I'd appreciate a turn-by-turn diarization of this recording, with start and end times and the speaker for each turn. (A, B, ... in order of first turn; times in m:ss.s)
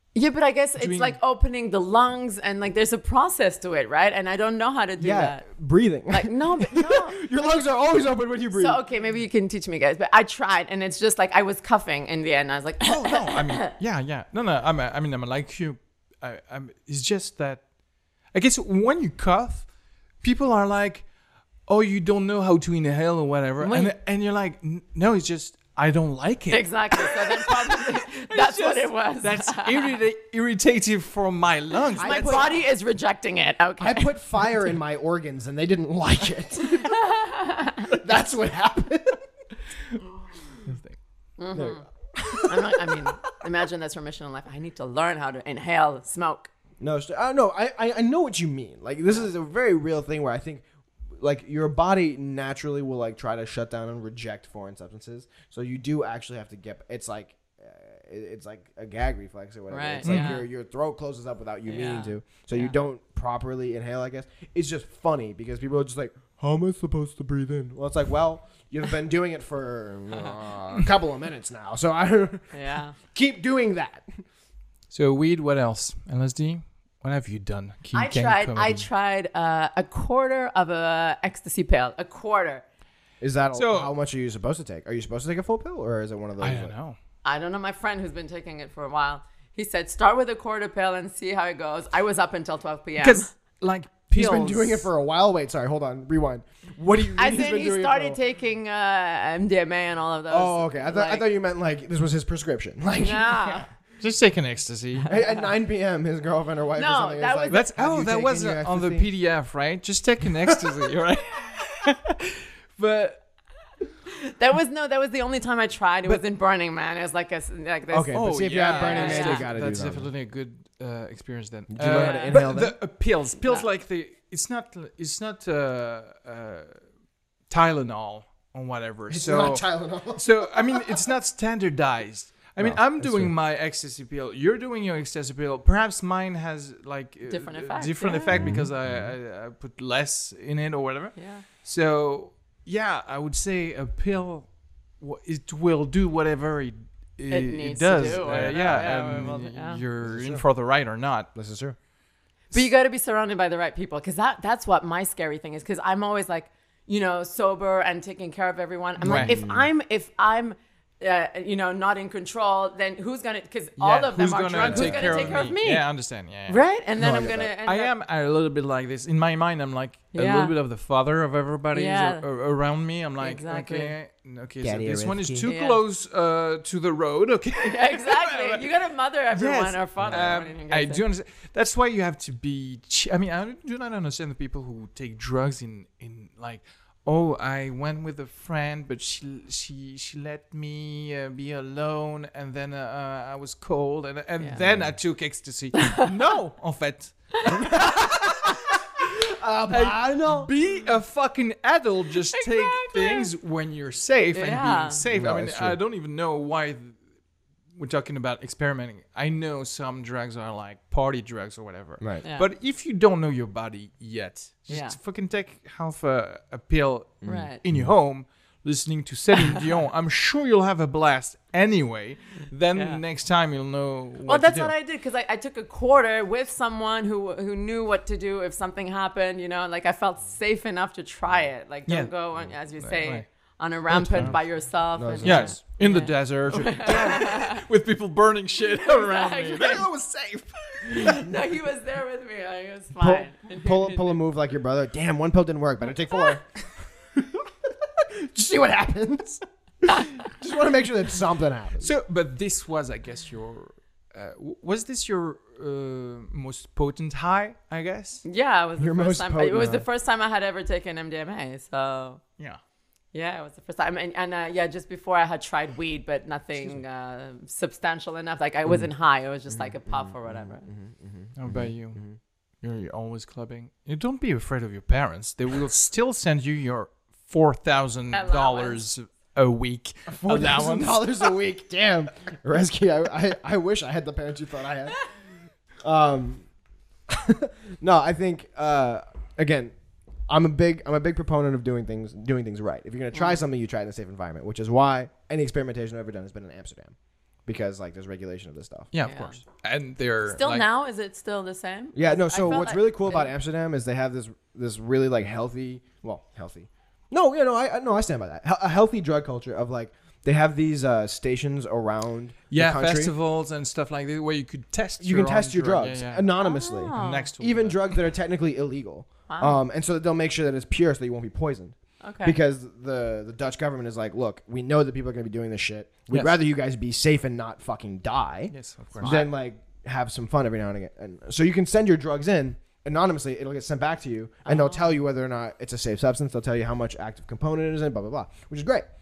0:00.2-0:05.5 A
0:00.8-0:01.2 B
0:05.0-0:08.8 C
0:06.1-0:07.4 A
0:08.6-0:13.7 A
0:12.8-0:17.6 B
0:18.3-0:19.7 B
0:20.2-0:21.1 B
0:21.7-0:32.5 B
0:23.6-0:23.9 A
0:26.5-0:30.0 A
0:32.0-0:32.6 C
0:32.0-0:34.4 A
0:33.8-0:36.9 C
0:36.8-0:37.9 A
0:37.9-0:39.2 C
0:40.7-0:41.0 B
0:41.4-0:41.8 A
0:41.5-0:42.8 C
0:42.4-0:46.5 A
0:46.8-1:12.5 C
0:59.7-1:00.5 A
1:00.0-1:00.4 B
1:01.7-1:02.7 A
1:12.5-1:13.0 A
1:13.0-1:14.1 C
1:14.9-1:18.9 B
1:17.9-1:22.6 A
1:23.2-1:26.7 C
1:23.5-1:23.9 B
1:26.4-1:27.0 B
1:27.2-1:33.3 A
1:33.0-1:34.9 B
1:34.1-1:38.2 C
1:37.2-1:41.2 A
1:40.3-1:43.7 C
1:43.0-1:43.7 A
1:44.0-1:45.1 B
1:45.1-1:49.1 C
1:46.8-1:47.7 A
1:47.5-1:53.2 B
1:54.2-1:59.5 A
1:57.9-2:00.1 C
1:58.1-2:06.8 B
2:01.7-2:02.8 C
2:01.9-2:02.4 A
2:07.5-2:24.5 B
2:09.1-2:11.0 C
2:12.6-2:13.4 C
2:17.3-2:18.5 A
2:18.3-2:19.1 C
2:21.2-2:21.4 A
2:25.0-2:31.3 B
2:27.3-2:29.8 A
2:28.3-2:29.4 C
2:30.0-2:30.4 C
2:31.4-2:31.8 C
2:32.5-2:45.9 A
2:39.0-2:39.4 B
2:39.0-2:39.7 C
2:43.8-2:46.6 B
2:44.6-2:45.5 C
2:46.5-2:47.9 A
2:47.0-2:47.5 C
2:47.6-2:58.7 B
2:50.1-2:50.5 A
2:51.7-2:52.2 A
2:53.2-2:54.0 A
2:54.6-2:55.5 C
2:55.5-2:55.8 A
2:57.6-3:01.0 A
2:59.3-3:17.8 B
3:00.0-3:00.3 C
3:14.6-3:15.0 C
3:17.5-3:20.5 C
3:19.7-3:27.0 B
3:22.4-3:23.3 A
3:24.3-3:25.0 A
3:25.1-3:25.8 C
3:27.8-3:44.7 B
3:34.7-3:35.0 A
3:37.2-3:37.9 C
3:37.2-3:37.6 A
3:42.7-3:43.0 A
3:44.3-3:57.6 A
3:51.9-3:53.3 B
3:53.9-3:54.4 B
3:53.9-3:55.6 C
3:55.2-3:59.8 B
3:58.8-3:59.8 A
3:59.7-4:01.0 C
4:00.9-4:04.2 A
4:03.0-4:06.5 C
4:07.1-4:11.9 C
4:11.8-4:18.2 B
4:18.2-4:22.2 A
4:18.8-4:19.8 C
4:23.1-4:30.7 A
4:29.5-4:32.2 C
4:31.4-4:32.0 B
4:32.6-4:41.1 B
4:38.1-4:38.8 A
4:40.1-4:45.0 C
4:45.8-4:46.5 C
4:47.1-4:49.7 C
4:50.3-4:57.0 C
4:53.1-4:53.4 A
4:57.5-4:58.9 C
4:58.9-5:00.6 B
4:59.0-4:59.4 A
5:00.4-5:03.3 A
5:02.0-5:13.1 C
5:12.5-5:16.3 B
5:15.0-5:38.9 C
5:16.4-5:17.3 A
5:17.0-5:17.8 B
5:19.3-5:19.6 A
5:22.0-5:22.4 A
5:26.1-5:26.4 B
5:28.5-5:29.2 B
5:29.0-5:29.3 A
5:34.4-5:35.0 A